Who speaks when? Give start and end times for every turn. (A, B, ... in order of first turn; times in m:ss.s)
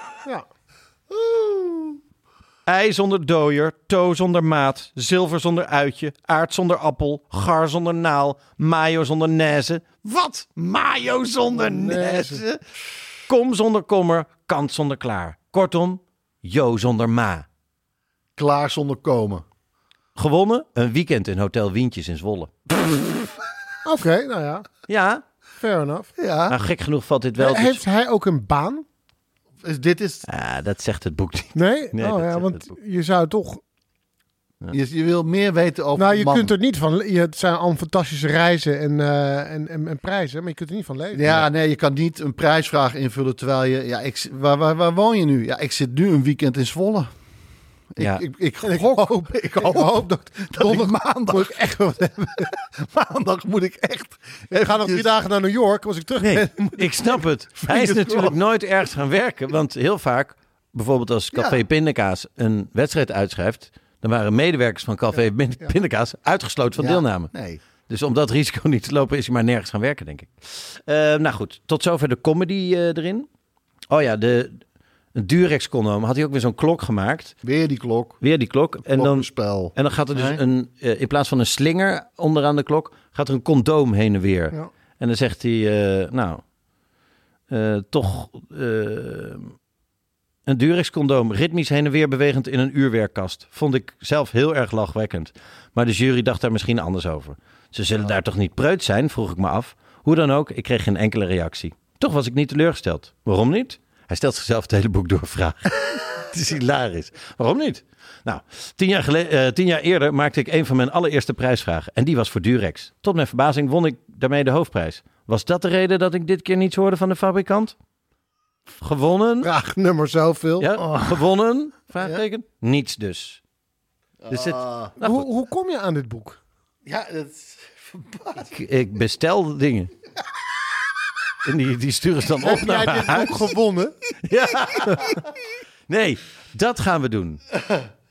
0:01.1-0:02.0 A
0:02.6-0:12.6 B
0:11.5-0:12.4 C
0:13.2-0:17.4 B
0:18.4-0:19.4 A
0:20.2-0:22.5 B
0:23.8-0:24.7 C
0:24.9-0:25.2 B
0:25.6-0:26.1 C
0:26.2-0:26.6 A
0:26.5-0:27.8 B
0:27.4-0:28.8 C
0:29.6-0:30.2 A
0:30.3-0:32.7 B
0:31.6-0:33.6 C
0:34.7-0:36.6 A
0:36.0-0:41.3 C
0:41.1-0:47.1 A
0:47.9-0:55.1 A
0:48.0-0:48.2 B
0:48.6-0:52.5 C
0:54.5-0:56.9 C
0:56.2-1:07.3 B
0:57.6-0:58.4 A
1:01.3-1:01.6 A
1:06.8-1:07.6 A
1:07.9-1:13.3 B
1:13.9-1:14.6 B
1:15.1-1:17.4 B
1:17.4-1:18.2 A
1:18.2-1:26.4 B
1:18.8-1:20.4 A
1:27.5-1:29.5 B
1:30.5-1:57.7 B
1:58.8-1:59.5 B
1:59.4-2:00.7 C
2:00.6-2:03.4 B
2:00.8-2:01.2 A
2:04.2-2:04.9 A
2:04.3-2:05.3 B
2:05.0-2:06.4 C
2:06.8-2:08.5 A
2:08.5-2:09.9 B
2:11.4-2:13.5 B
2:12.4-2:13.9 C
2:14.2-2:15.3 B
2:15.9-2:17.4 B